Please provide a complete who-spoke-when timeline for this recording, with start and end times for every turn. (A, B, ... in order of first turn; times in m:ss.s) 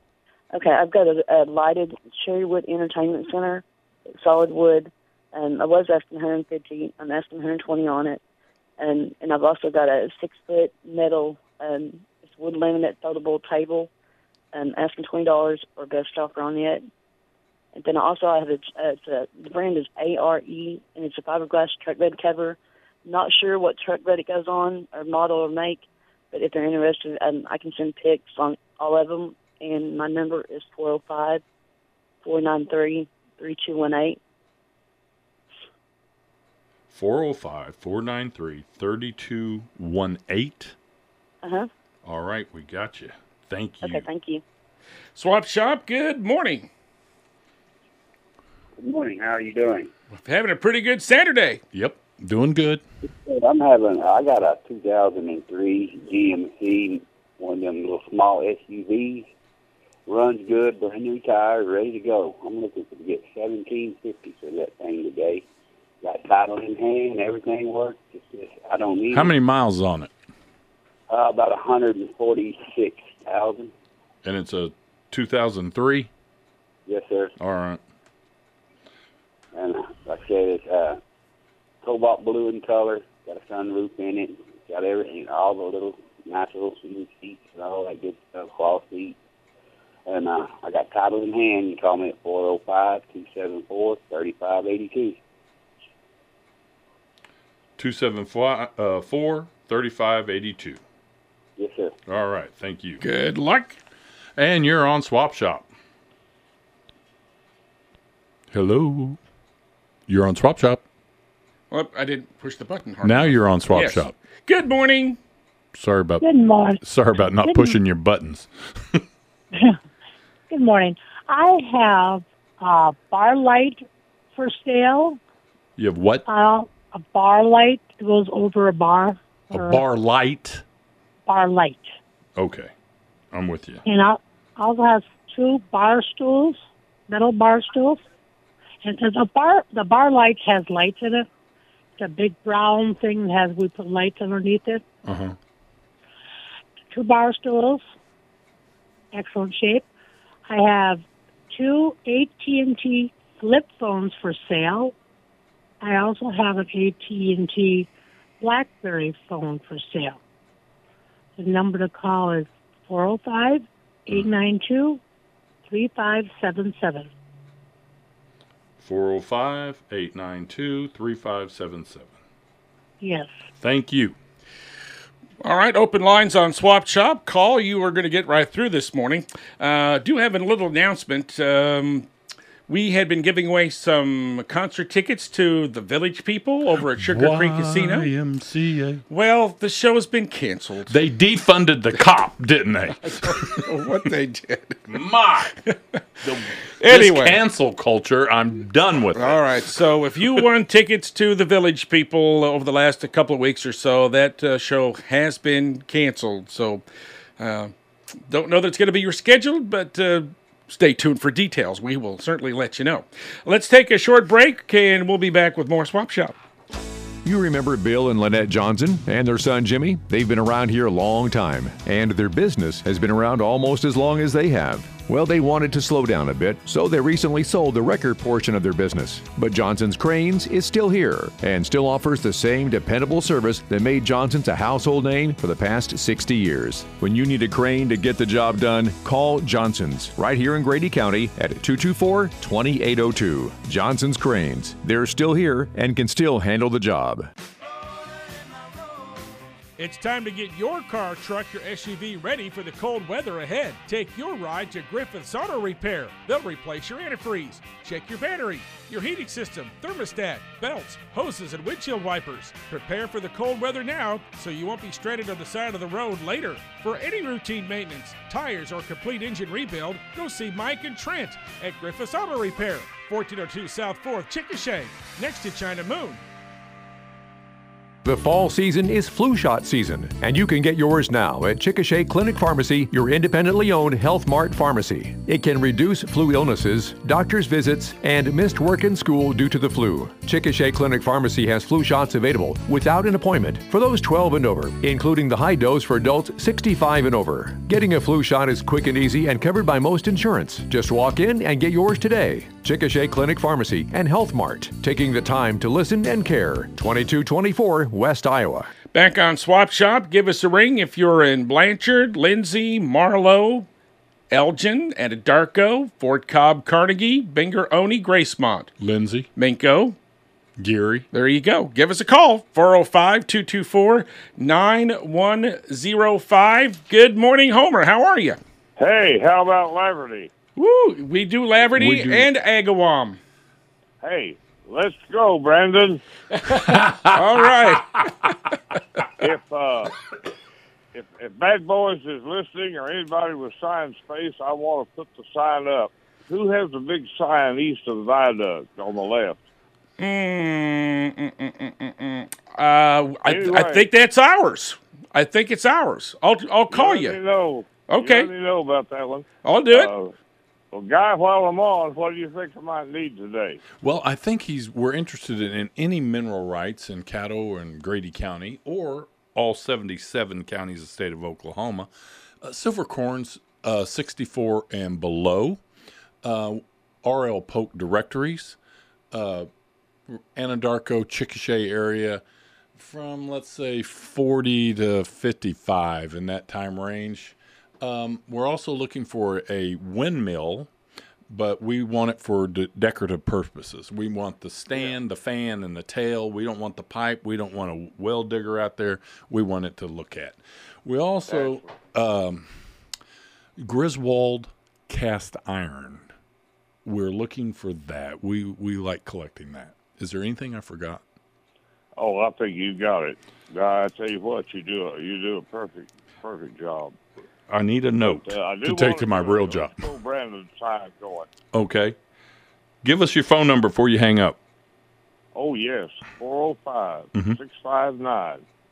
0:00.5-0:03.6 A
0:04.2-0:08.2 A
0:08.8-0:13.9 A
0:14.5-0:16.8 A
0:17.7-0:31.4 A
0:32.2-0:34.2 A
0:36.9-0:40.7 B
0:41.4-0:41.7 A
0:42.0-0:44.1 B
0:43.8-0:44.4 A
0:45.2-0:46.7 C
0:48.8-0:49.9 D
0:50.2-0:51.6 C
0:51.7-0:52.8 B
0:53.0-0:59.3 D
1:00.1-1:05.4 D
1:06.0-1:09.3 D
1:09.1-1:10.1 B
1:11.1-1:13.7 D
1:14.2-1:16.1 B
1:16.8-1:17.3 D
1:17.4-1:17.8 B
1:19.5-1:21.0 D
1:21.8-1:29.2 D
1:30.1-1:35.2 D
1:37.8-1:40.8 B
1:41.6-1:41.9 D
1:42.1-1:43.0 B
1:43.0-1:43.8 C
1:44.4-1:45.7 B
1:48.5-1:49.2 B
1:50.1-1:50.8 B
1:51.7-1:55.2 C
1:53.0-1:54.1 B
1:55.7-1:56.3 B
1:56.2-1:56.8 E
1:56.8-1:59.0 B
1:57.4-1:57.8 E
1:59.5-1:59.8 E
2:00.5-2:03.8 E
2:04.3-2:05.2 E
2:05.8-2:06.2 B
2:06.2-2:09.8 E
2:09.5-2:10.6 B
2:11.3-2:11.9 E
2:12.4-2:12.7 B
2:13.3-2:13.8 B
2:13.8-2:18.0 E
2:18.8-2:21.3 E
2:22.0-2:24.8 E
2:25.0-2:25.4 B
2:26.9-2:27.8 E
2:29.1-2:29.8 E
2:30.5-2:34.9 E
2:35.8-2:37.9 E
2:38.4-2:40.2 E
2:41.4-2:45.0 E
2:45.6-2:47.1 E
2:48.8-2:52.1 B
2:53.0-2:53.4 E
2:53.6-2:54.1 B
2:55.4-3:02.1 C
3:02.7-3:08.1 C
3:07.0-3:09.0 B
3:09.1-3:11.0 C
3:10.9-3:13.6 B
3:13.0-3:14.8 C
3:14.9-3:15.6 B
3:16.2-3:19.6 B
3:16.8-3:17.4 C
3:19.2-3:26.8 C
3:27.4-3:27.7 C
3:28.3-3:36.4 C
3:37.2-4:07.3 F
4:09.8-4:36.2 C
4:38.0-5:08.7 F
5:08.9-5:13.7 C
5:14.3-5:18.7 C
5:18.8-5:19.3 B
5:19.4-5:20.0 C
5:20.6-5:21.0 B
5:21.1-5:28.4 C
5:28.8-5:30.3 G
5:30.6-5:33.2 C
5:31.8-5:32.3 B
5:34.0-5:36.0 G
5:36.4-5:38.1 C
5:39.2-5:39.9 G
5:40.9-5:49.4 G
5:50.0-5:57.2 C
5:53.2-5:53.9 G
5:56.7-6:00.1 G
5:57.9-5:58.3 C
5:59.4-5:59.9 C
6:00.7-6:03.6 G
6:03.8-6:11.9 B
6:12.4-6:15.6 B
6:16.2-6:18.6 B
6:19.1-6:19.5 B
6:20.1-6:22.2 B
6:22.8-6:30.7 B
6:31.3-6:42.5 B
6:34.7-6:35.0 G
6:41.3-6:41.7 G
6:43.6-6:46.1 B
6:46.8-6:51.0 B
6:52.0-6:57.0 G
6:57.5-6:59.8 B
6:58.0-7:01.3 G
7:01.5-7:02.0 B
7:02.8-7:04.4 B
7:05.3-7:08.4 G